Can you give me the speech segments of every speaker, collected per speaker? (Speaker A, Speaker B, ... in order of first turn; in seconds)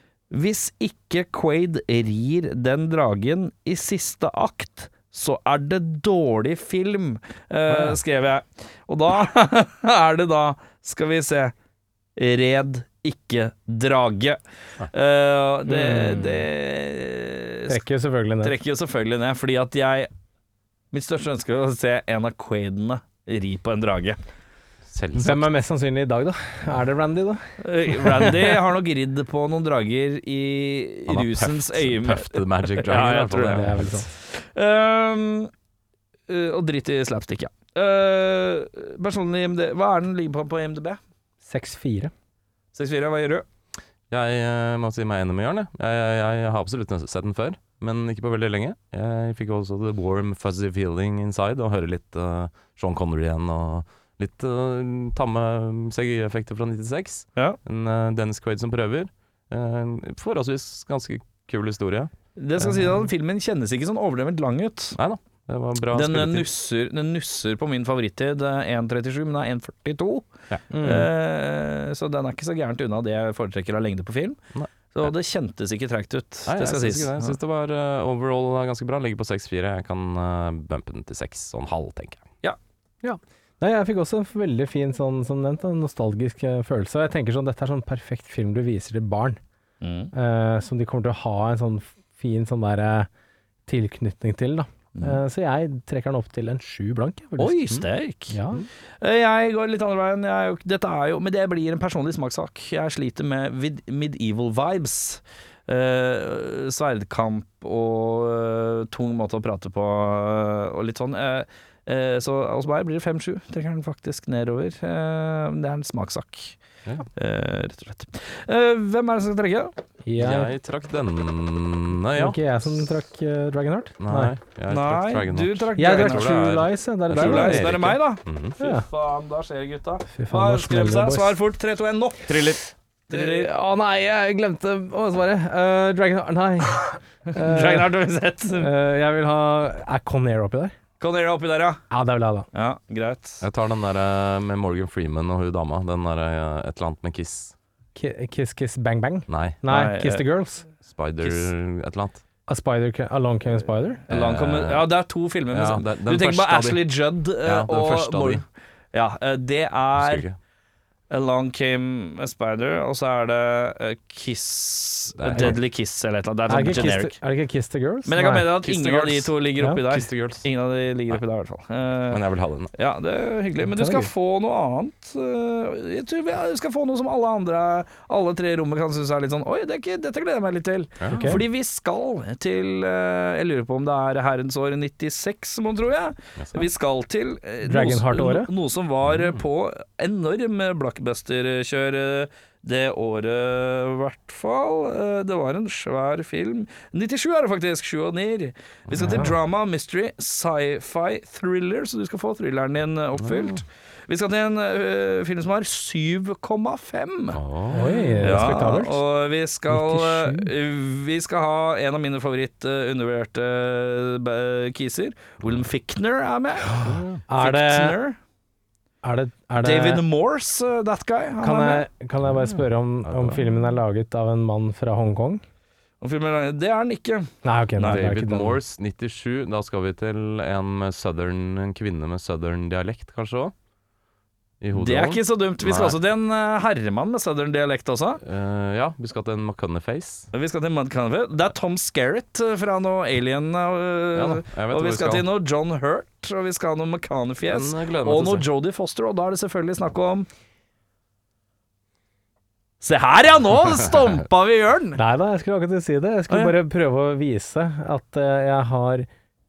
Speaker A: 0.3-11.5, 12.2-17.8, 18.4-20.1, 20.9-24.2, 27.6-35.5, 36.3-41.0, 42.7-43.5, 62.4-65.0, 65.9-74.4, 74.9-77.3, 89.8-90.1, 97.4-98.4, 99.0-116.6, 117.2-119.7, 124.7-133.5, 137.3-138.7, 141.0-141.8, 142.5-143.4, 149.7-150.2, 154.1-160.2, 161.1-167.2, 168.1-172.2, 172.7-207.4, 208.2-218.2, 219.6-221.8, 226.0-228.0, 234.8-238.2, 240.3-250.3, 252.8-255.0, 256.3-256.6
Speaker B: 15.7-16.5, 17.7-18.6, 25.2-28.6, 33.4-34.1, 41.5-42.1, 70.7-71.1, 83.0-89.4, 90.1-93.1, 93.7-98.7, 120.0-120.5, 122.2-124.3, 125.8-127.9, 128.6-128.8, 130.2-131.4, 133.1-138.0, 138.6-140.7, 141.9-142.5, 147.9-150.7, 152.5-154.0, 166.5-169.9, 173.7-174.1, 181.1-181.4, 187.7-188.5, 199.0-199.3, 207.7-209.0, 209.7-210.5, 216.9-218.0, 219.0-220.0, 221.4-225.4, 227.4-228.6, 255.0-259.1
Speaker C: 24.9-25.5, 31.1-34.0, 44.1-63.0, 65.0-66.5, 74.5-75.1, 76.5-82.3, 120.2-122.4, 124.0-128.6, 132.3-132.6, 143.4-147.5, 149.3-149.6, 150.8-152.2, 154.1-154.9, 155.5-158.4, 159.9-160.4, 165.2-165.6, 168.8-169.3, 169.9-170.4, 172.1-172.7, 181.0-181.4, 186.4-186.7, 189.0-189.4, 198.9-199.3, 203.2-203.6, 207.3-208.6, 216.8-217.2, 222.3-223.4, 227.8-233.5, 234.6-236.0, 238.2-240.3, 244.1-245.3, 247.5-248.5